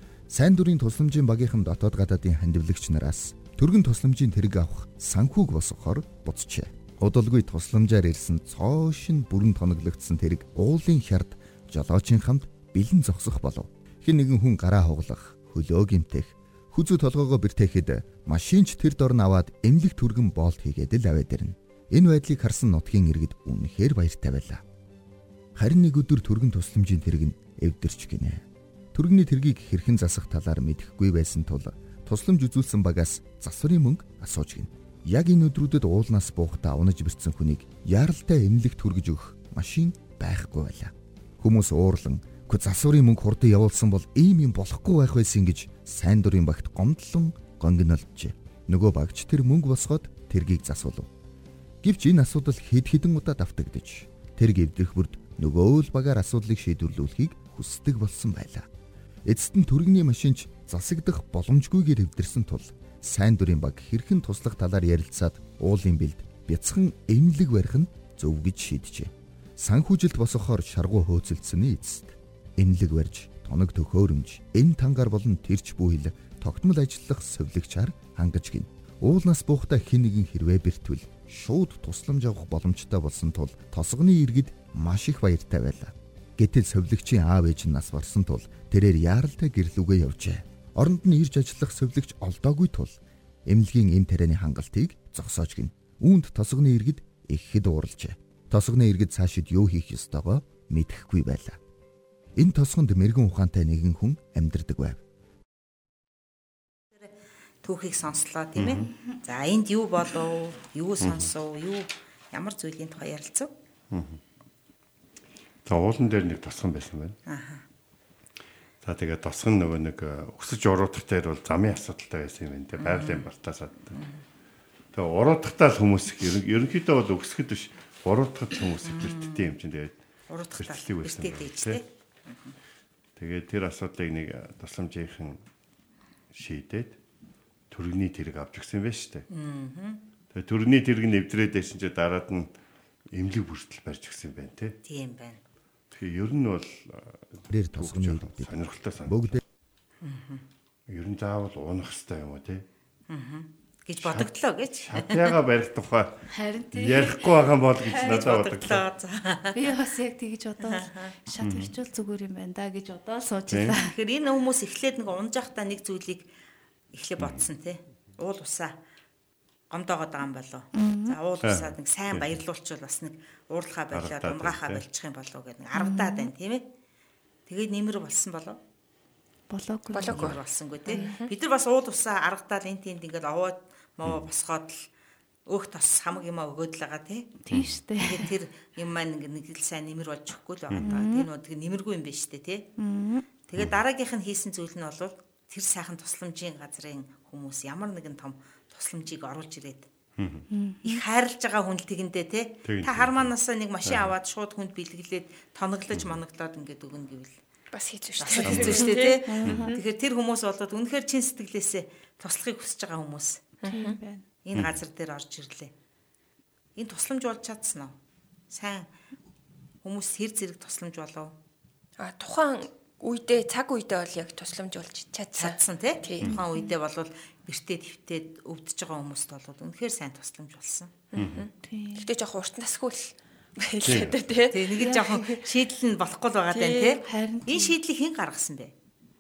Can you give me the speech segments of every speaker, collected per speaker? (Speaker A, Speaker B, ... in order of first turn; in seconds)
Speaker A: 0.3-24.6, 25.6-51.1, 51.8-58.7, 59.3-93.0, 93.5-101.6, 102.4-105.0, 147.5-149.4
Speaker B: 107.0-113.5, 117.3-117.6, 122.8-123.3, 130.3-132.6, 139.3-140.0, 144.8-145.4, 150.0-150.4, 153.1-155.4, 157.8-159.7, 160.7-161.1, 163.8-166.3, 166.9-168.7, 169.7-176.7, 177.5-178.6, 180.1-184.9, 185.5-187.4, 187.9-192.7, 193.5-199.9, 200.8-207.3, 208.2-213.4, 214.4-215.7, 216.8-217.9, 218.5-218.9, 219.8-221.3, 225.4-230.9, 234.5-238.7
Speaker C: 108.6-108.9, 111.0-111.3, 113.9-114.2, 115.7-117.2, 118.8-124.0, 124.9-130.0, 130.6-131.8, 133.2-135.4, 136.3-137.0, 137.7-139.3, 140.3-142.5, 143.1-144.8, 145.9-149.4, 150.9-152.6, 154.0-154.3, 154.9-158.8, 161.4-161.7, 163.5-163.8, 171.4-172.3, 173.9-174.8, 200.2-200.5, 202.7-203.3, 203.9-204.1, 208.4-208.8, 231.2-231.5, 233.8-234.2
Speaker D: 156.3-157.2, 159.6-163.9, 170.8-171.2, 175.8-176.3, 179.5-180.4, 187.4-188.3, 190.8-191.3, 192.8-193.2, 200.5-201.0, 209.3-209.8, 213.7-214.2, 231.6-232.1, 237.1-237.8
Speaker E: 179.9-181.3, 207.7-209.3, 213.6-214.0, 222.0-226.4, 231.1-235.4, 236.5-237.0